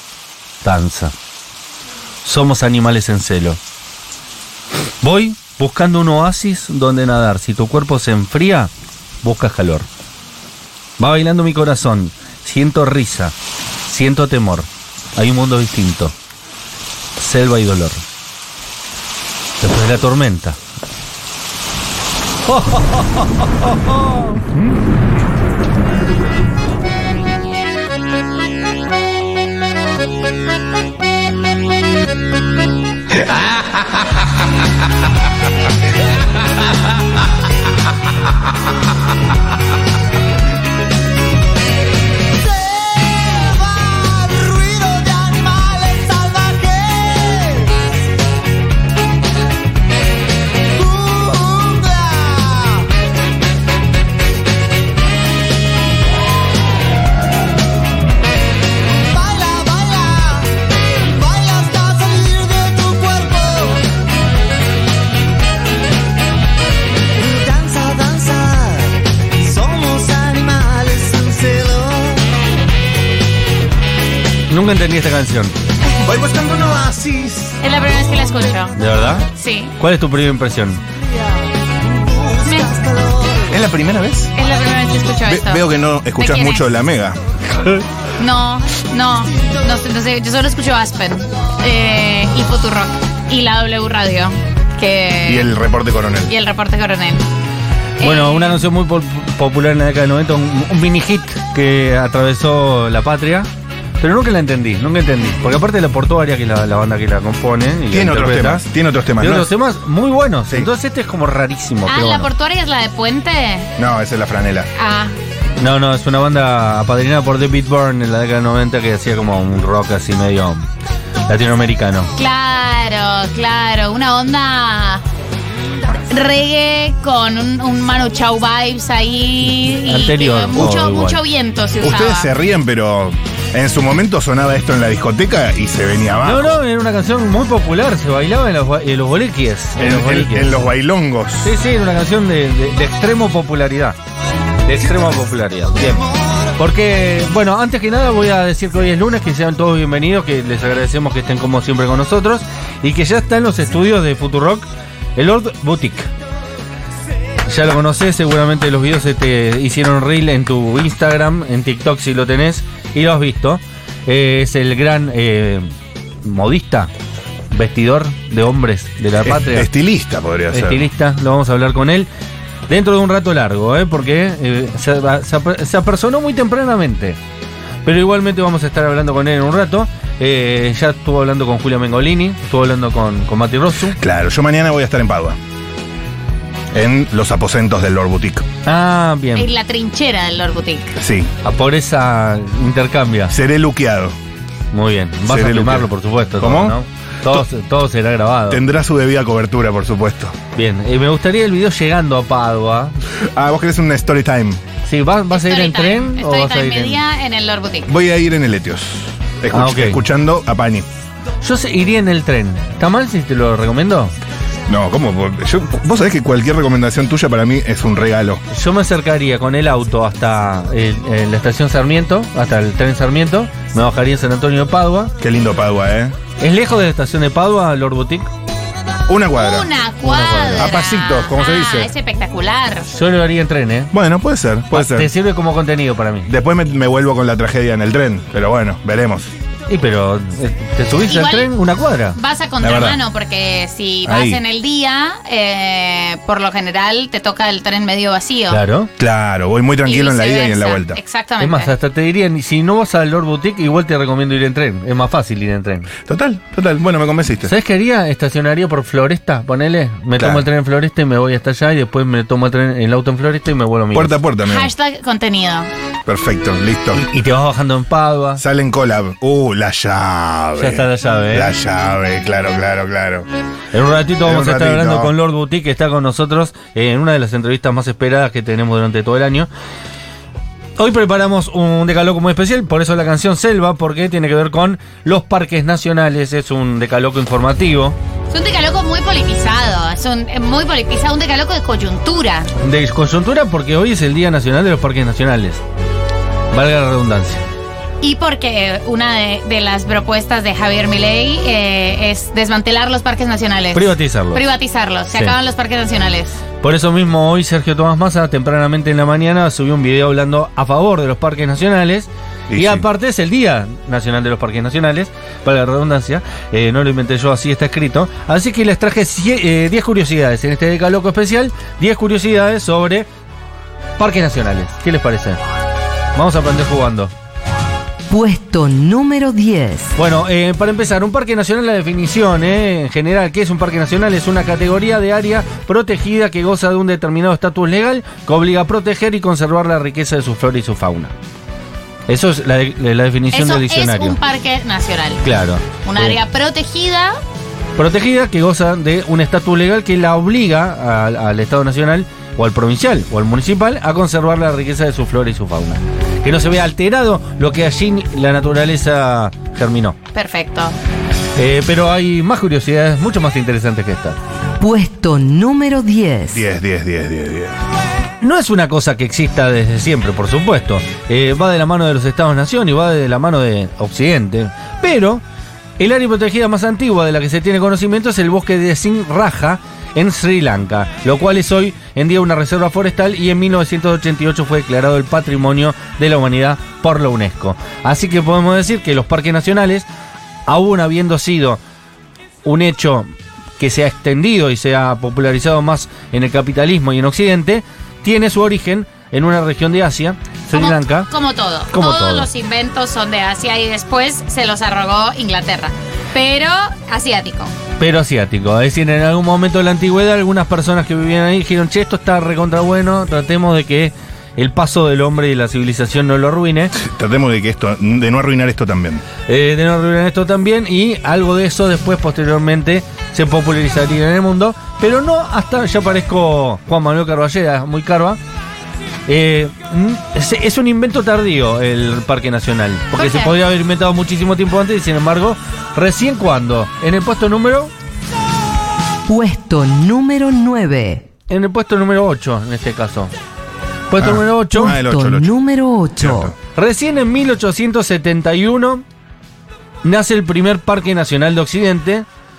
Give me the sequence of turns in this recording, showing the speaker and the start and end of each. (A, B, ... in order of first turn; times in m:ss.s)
0:00.6-0:01.1 A
0:02.2-0:03.6 A
0:05.0-0:08.7 A
0:09.2-0:09.9 A
0:11.0-0:16.2 A
0:17.2-0:18.0 A
0:19.6-0:20.6 A
0:22.5-0:24.5 A
0:42.7-0:47.8 B
0:50.8-0:52.9 B
0:59.0-1:03.8 B
1:07.1-1:12.3 B
1:14.5-1:15.6 A
1:16.1-1:17.5 C
1:16.6-1:17.1 B
1:17.6-1:18.8 D
1:18.8-1:19.3 A
1:19.3-1:19.8 D
1:19.8-1:20.8 A
1:21.9-1:23.5 B
1:22.4-1:22.7 D
1:23.5-1:24.3 C
1:24.4-1:25.6 D
1:25.3-1:27.2 C
1:26.2-1:26.7 D
1:28.2-1:35.5 D
1:35.2-1:36.3 C
1:36.3-1:37.2 D
1:38.0-1:38.6 D
1:38.0-1:43.5 A
1:44.0-1:48.6 A
1:47.9-1:49.5 C
1:49.2-1:52.3 A
1:51.9-1:53.7 D
1:53.8-1:54.7 C
1:54.8-1:55.2 D
1:55.6-2:00.7 A
2:01.3-2:02.1 A
2:02.2-2:05.0 D
2:06.0-2:12.3 D
2:09.7-2:11.2 A
2:11.8-2:16.6 C
2:16.2-2:20.6 A
2:19.8-2:21.6 C
2:21.4-2:24.0 A
2:24.6-2:26.0 A
2:26.6-2:36.1 A
2:37.5-2:45.7 A
2:46.2-2:46.9 A
2:47.5-2:49.7 A
2:49.2-2:50.9 C
2:50.5-2:52.1 A
2:52.7-2:57.2 A
2:57.8-3:04.0 A
3:03.9-3:05.4 C
3:06.7-3:08.5 C
3:08.6-3:09.5 A
3:09.4-3:11.0 D
3:11.0-3:11.3 C
3:11.4-3:13.4 A
3:13.3-3:14.2 C
3:14.7-3:18.6 A
3:15.3-3:17.4 C
3:18.5-3:20.4 C
3:20.6-3:23.0 A
3:23.1-3:24.6 C
3:24.9-3:27.0 A
3:25.3-3:27.9 D
3:27.9-3:30.9 C
3:29.5-3:30.0 A
3:31.4-3:34.1 A
3:34.7-3:38.4 C
3:38.5-3:45.1 A
3:45.2-3:46.2 C
3:46.4-3:48.3 A
3:49.1-3:51.9 C
3:49.4-3:52.9 D
3:52.9-3:53.9 A
3:53.9-3:55.1 C
3:54.7-3:56.3 A
3:56.3-3:59.3 C
3:59.7-4:02.2 A
4:01.1-4:01.5 D
4:02.2-4:08.6 D
4:02.6-4:03.0 C
4:04.0-4:04.4 C
4:08.5-4:08.9 A
4:09.0-4:11.0 C
4:09.8-4:11.7 D
4:11.4-4:15.9 A
4:16.0-4:17.6 C
4:17.4-4:24.2 A
4:20.2-4:20.5 C
4:23.9-4:24.7 C
4:24.4-4:25.7 D
4:26.1-4:27.0 C
4:26.9-4:28.4 A
4:28.4-4:33.3 C
4:30.6-4:31.5 A
4:33.7-4:39.5 A
4:34.2-4:35.1 C
4:40.8-4:48.0 A
4:48.3-4:52.5 D
4:52.6-4:55.6 A
4:56.5-4:57.4 A
4:58.0-5:06.4 D
5:03.7-5:04.4 A
5:06.6-5:23.1 A
5:12.5-5:12.9 C
5:24.0-5:25.4 A
5:26.2-5:27.1 A
5:28.1-5:29.9 E
5:30.0-5:41.1 A
5:42.1-5:44.2 A
5:43.3-5:45.2 D
5:45.2-5:46.2 A
5:45.8-5:47.2 D
5:47.8-6:00.0 A
6:00.1-6:00.8 D
6:01.4-6:04.2 A
6:04.6-6:06.4 E
6:06.3-6:07.6 C
6:08.2-6:15.2 A
6:15.8-6:29.9 A
6:30.5-6:31.6 A
6:32.4-6:41.1 A
6:40.5-6:47.5 D
6:41.7-6:42.3 A
6:47.8-6:56.7 A
6:56.7-6:59.0 C
6:59.3-7:08.2 A
7:09.1-7:17.7 A
7:13.0-7:13.4 D
7:19.1-7:21.1 E
7:21.3-7:23.1 A
7:23.9-7:24.8 A
7:24.0-7:25.4 C
7:24.5-7:26.3 E
7:26.0-7:26.4 C
7:26.6-7:28.8 A
7:29.8-7:32.1 A